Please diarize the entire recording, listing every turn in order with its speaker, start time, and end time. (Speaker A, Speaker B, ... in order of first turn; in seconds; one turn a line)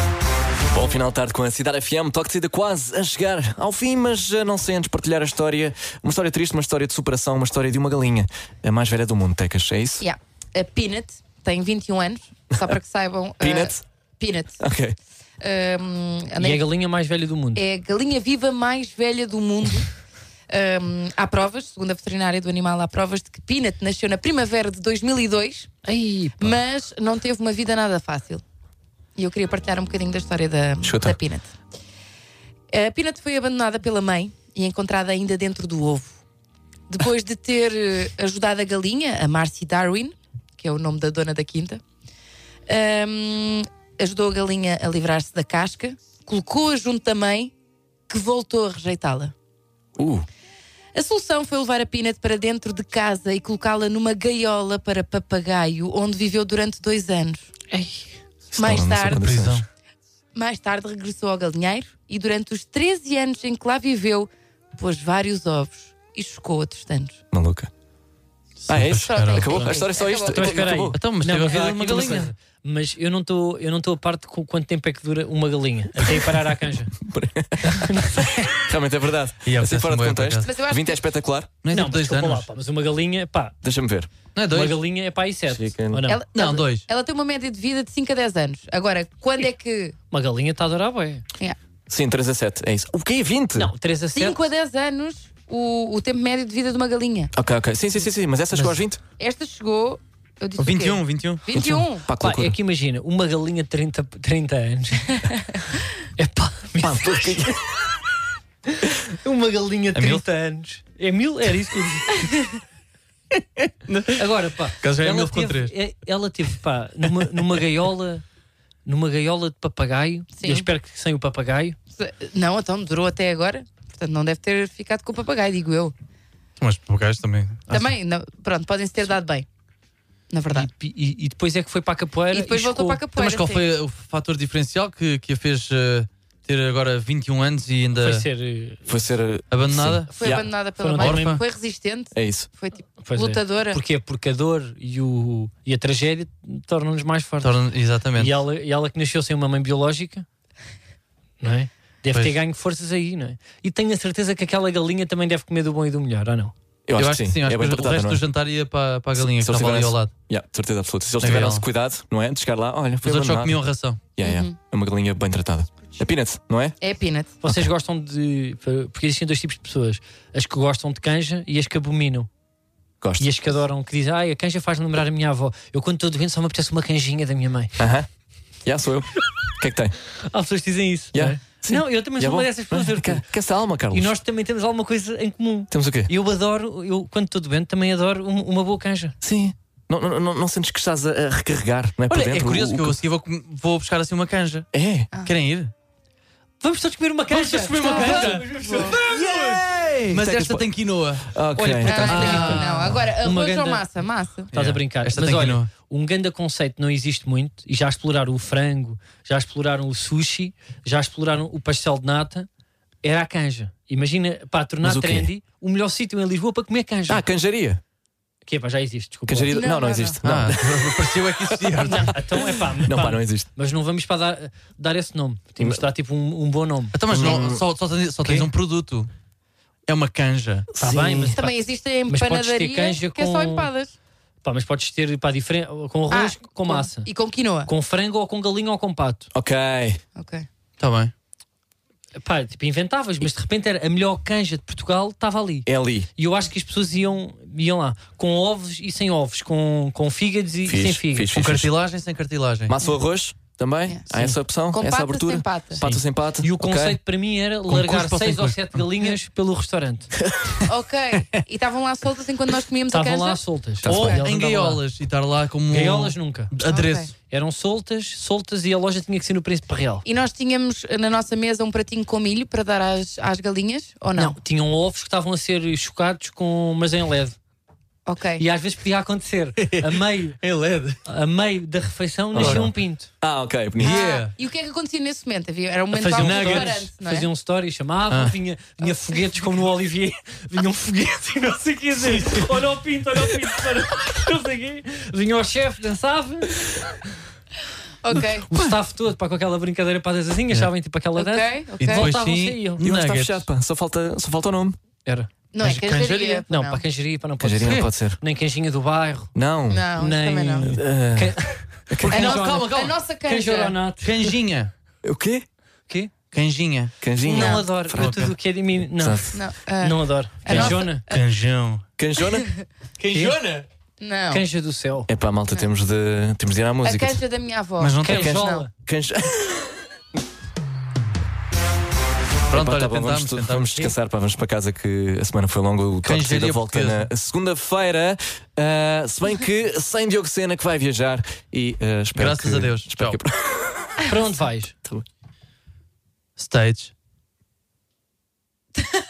Speaker A: 0.7-10.0
Speaker B: 10.0-14.6
Speaker A: 13.4-13.8
Speaker A: 14.6-15.0
Speaker B: 15.4-16.6
Speaker C: 16.4-17.6
Speaker B: 17.6-19.9
Speaker B: 20.5-25.7
Speaker C: 25.8-26.6
Speaker B: 26.4-28.4
Speaker B: 29.1-31.5
Speaker A: 30.8-31.2
Speaker B: 32.7-36.2
Speaker B: 36.9-41.8
Speaker B: 42.7-47.5
Speaker B: 48.1-49.3
Speaker A: 50.0-50.3
Speaker B: 50.9-57.5
Speaker C: 57.7-58.1
Speaker A: 58.5-59.6
Speaker B: 58.6-59.3
Speaker D: 59.2-59.6
Speaker B: 60.3-67.2
Speaker A: 67.3-67.7
Speaker D: 68.6-69.8
Speaker A: 68.7-71.0
Speaker B: 69.1-70.7
Speaker C: 70.3-76.9
Speaker D: 70.9-72.3
Speaker A: 77.0-81.5
Speaker C: 77.6-78.6
Speaker D: 79.5-80.5
Speaker B: 80.4-81.0
Speaker D: 81.6-82.5
Speaker C: 81.7-83.5
Speaker A: 83.6-84.1
Speaker D: 84.3-84.8
Speaker C: 84.5-86.2
Speaker A: 85.5-86.0
Speaker B: 86.1-90.0
Speaker D: 86.3-86.8
Speaker C: 90.1-91.2
Speaker A: 91.9-93.7
Speaker C: 93.6-94.4
Speaker B: 94.1-97.3
Speaker A: 97.3-99.0
Speaker B: 99.2-102.1
Speaker D: 100.6-101.4
Speaker A: 101.5-102.6
Speaker C: 102.2-105.2
Speaker C: 106.2-107.6
Speaker A: 106.8-107.6
Speaker C: 108.8-112.3
Speaker D: 109.9-110.2
Speaker D: 113.9-114.2
Speaker C: 114.1-118.2
Speaker D: 114.8-115.7
Speaker C: 118.9-121.8
Speaker B: 120.3-120.7
Speaker B: 122.0-125.9
Speaker D: 126.6-127.6
Speaker C: 127.7-127.9
Speaker B: 127.7-129.5
Speaker B: 130.3-130.7
Speaker C: 130.5-133.4
Speaker B: 132.3-133.6
Speaker D: 133.2-138.2
Speaker C: 138.0-138.9
Speaker A: 138.9-140.1
Speaker D: 139.5-141.4
Speaker B: 140.1-143.8
Speaker C: 140.8-141.4
Speaker A: 142.1-142.5
Speaker C: 143.0-147.6
Speaker D: 147.4-148.3
Speaker C: 148.2-150.3
Speaker C: 151.4-156.5
Speaker A: 156.9-158.2
Speaker D: 157.0-160.1
Speaker A: 159.2-163.6
Speaker D: 161.2-161.6
Speaker D: 163.0-164.0
Speaker A: 164.1-166.8
Speaker B: 164.2-164.5
Speaker B: 166.8-167.3
Speaker C: 167.4-172.3
Speaker A: 173.0-173.3
Speaker C: 173.2-177.8
Speaker A: 177.8-178.1
Speaker A: 178.6-179.9
Speaker C: 180.3-183.2
Speaker A: 181.1-184.1
Speaker C: 183.9-189.2
Speaker A: 185.7-186.1
Speaker A: 189.2-193.0
Speaker D: 192.1-194.7
Speaker A: 194.7-195.1
Speaker D: 195.2-195.7
Speaker C: 196.6-199.0
Speaker D: 197.3-203.0
Speaker B: 197.8-199.0
Speaker A: 199.0-202.5
Speaker C: 201.7-203.8
Speaker B: 201.9-204.5
Speaker C: 204.5-212.5
Speaker D: 204.5-205.7
Speaker C: 213.0-217.2
Speaker A: 214.8-215.3
Speaker A: 217.1-217.8
Speaker C: 218.5-219.6
Speaker A: 219.3-220.6
Speaker B: 219.5-220.2
Speaker D: 220.2-222.2
Speaker C: 221.9-227.0
Speaker A: 222.8-223.5
Speaker D: 226.9-229.1
Speaker A: 227.1-227.6
Speaker D: 229.9-230.7
Speaker A: 230.7-231.4
Speaker C: 230.8-233.7
Speaker B: 231.3-233.9
Speaker C: 234.4-237.1
Speaker B: 236.1-237.7
Speaker C: 237.6-239.3
Speaker A: 239.3-240.0
Speaker B: 240.2-240.5
Speaker D: 240.8-241.1
Speaker C: 242.2-251.3
Speaker A: 245.7-246.1
Speaker A: 250.6-251.7
Speaker D: 251.3-252.8
Speaker A: 252.7-257.0
Speaker B: 253.9-255.9
Speaker C: 256.4-260.1
Speaker D: 257.7-259.1
Speaker B: 260.6-263.4
Speaker C: 262.9-264.8
Speaker A: 263.8-264.2
Speaker D: 263.9-267.1
Speaker C: 265.7-266.5
Speaker B: 266.6-267.1
Speaker C: 267.3-270.1
Speaker B: 270.1-274.4
Speaker C: 274.1-277.4
Speaker B: 278.1-278.4
Speaker C: 278.4-280.4
Speaker D: 279.6-281.0
Speaker C: 281.1-283.1
Speaker A: 282.3-284.0
Speaker D: 282.4-282.6
Speaker D: 283.8-284.3
Speaker B: 283.8-287.3
Speaker C: 285.9-297.0
Speaker D: 286.1-286.9
Speaker D: 288.1-288.4
Speaker D: 292.0-292.5
Speaker B: 298.0-298.5
Speaker C: 298.1-302.8
Speaker B: 301.1-302.1
Speaker D: 301.9-303.5
Speaker A: 302.8-304.8
Speaker B: 305.5-306.8
Speaker D: 305.6-306.4
Speaker C: 306.5-309.3
Speaker A: 307.4-308.2
Speaker D: 307.6-307.9
Speaker A: 309.3-309.9
Speaker B: 309.7-310.8
Speaker C: 310.0-312.7
Speaker A: 310.7-311.4
Speaker A: 311.9-312.3
Speaker D: 312.0-313.0
Speaker B: 312.1-313.8
Speaker C: 313.2-314.4
Speaker D: 314.0-314.7
Speaker A: 315.0-315.5
Speaker D: 316.3-316.9
Speaker A: 317.0-318.3
Speaker C: 317.2-321.0
Speaker B: 317.3-317.6
Speaker D: 317.9-318.3
Speaker A: 318.9-319.3
Speaker B: 319.3-321.2
Speaker D: 320.5-321.9
Speaker A: 322.0-322.5
Speaker D: 323.0-323.6
Speaker B: 324.0-324.5
Speaker C: 324.3-325.1
Speaker A: 325.1-327.2
Speaker B: 326.8-328.7
Speaker D: 327.8-328.4
Speaker C: 328.0-328.7
Speaker A: 328.1-329.7
Speaker D: 332.5-333.8
Speaker A: 332.5-343.9
Speaker D: 336.1-337.1
Speaker D: 342.1-343.2
Speaker C: 344.1-344.7
Speaker D: 346.4-346.9